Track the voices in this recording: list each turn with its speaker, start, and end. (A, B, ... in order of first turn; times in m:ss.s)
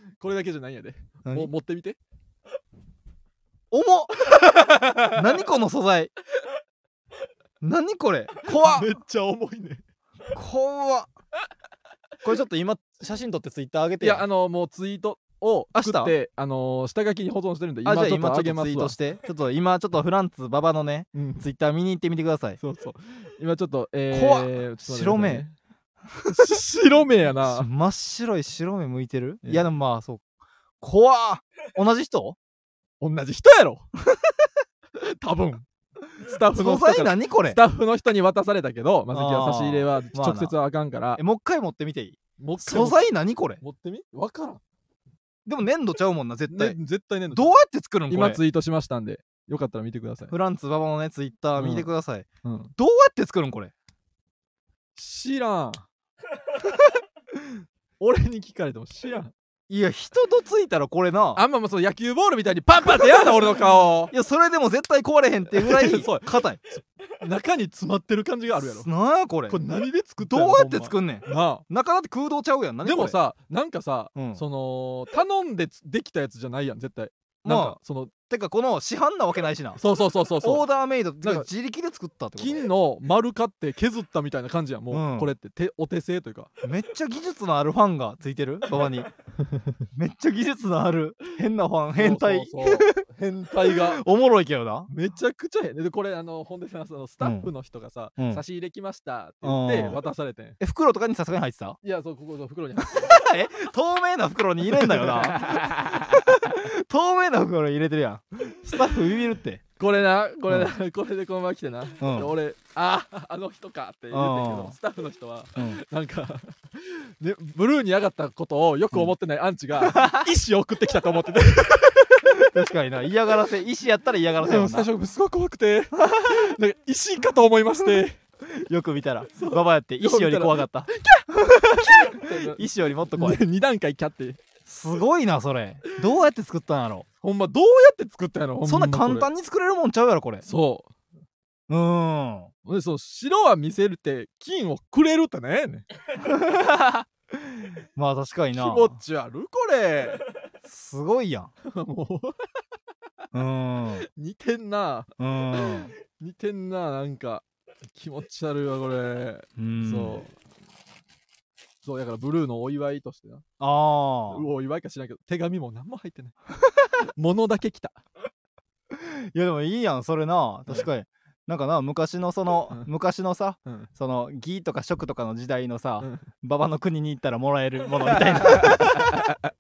0:00.2-0:02.0 A
0:01.2-0:01.5 B
0:03.7-0:06.1 B
0:04.4-0:05.2 A
0:07.6-0:08.9 B
0:08.5-0:09.8 A
0:10.3-0:11.1 B
0:12.2-0:14.3 B
0:14.0-0:19.0 A
0:15.7-0:16.2 B
0:17.8-0:22.6 B
0:21.2-0:21.4 A
0:22.6-0:25.5 A
0:24.1-0:25.4 B
0:26.1-0:26.6 B
0:26.3-0:27.7 A
0:27.5-0:30.2 B
0:30.8-0:32.4 B
0:33.0-0:33.9 A
0:34.9-0:35.7 A
0:36.2-0:41.2 A
0:36.5-0:37.6 B
0:39.1-0:40.5 B
0:41.2-0:43.6 B
0:42.4-0:43.1 A
0:43.6-0:44.6 A
0:45.5-0:46.8 B
0:46.5-0:47.6 A
0:47.3-0:48.4 B
0:48.1-0:50.3 A
0:50.3-0:52.3 B
0:51.6-0:51.9 A
0:52.4-0:52.7 A
0:52.8-0:53.7 B
0:55.0-0:55.8 A
0:58.0-0:59.3 A
0:59.7-1:01.4 B
1:01.4-1:04.1 A
1:04.1-1:06.6 B
1:05.5-1:06.4 A
1:07.1-1:08.9 A
1:08.6-1:09.6 B
1:09.5-1:11.6 A
1:10.2-1:13.2 B
1:12.8-1:18.1 A
1:14.2-1:14.4 B
1:17.4-1:17.8 B
1:18.3-1:19.8 B
1:19.8-1:20.7 A
1:20.4-1:22.6 B
1:21.2-1:21.5 A
1:22.4-1:26.5 A
1:24.9-1:25.3 B
1:26.6-1:29.1 B
1:30.0-1:33.0 B
1:32.0-1:34.0 A
1:33.6-1:34.9 B
1:34.9-1:40.6 A
1:37.2-1:37.5 B
1:39.4-1:40.0 B
1:40.6-1:41.8 B
1:41.8-1:43.2 A
1:42.9-1:49.6 B
1:44.7-1:46.2 A
1:49.8-2:02.5 A
1:52.0-1:52.3 B
1:54.1-1:54.8 B
1:59.9-2:00.2 B
2:02.4-2:04.9 B
2:04.4-2:08.2 A
2:06.0-2:06.3 B
2:08.5-2:13.4 B
2:09.4-2:14.4 A
2:14.7-2:17.1 B
2:17.2-2:19.3 A
2:18.6-2:20.4 B
2:20.4-2:20.9 A
2:21.7-2:22.5 B
2:22.6-2:25.9 A
2:26.3-2:27.0 B
2:28.0-2:29.0 B
2:28.5-2:30.2 A
2:30.6-2:31.5 B
2:31.6-2:32.4 A
2:33.3-2:34.1 B
2:34.0-2:40.4 A
2:35.2-2:35.9 B
2:39.6-2:40.2 B
2:41.8-2:43.4 A
2:43.6-2:44.5 B
2:44.3-2:46.4 A
2:47.2-2:48.0 A
2:49.0-2:59.3 B
2:58.0-2:59.4 A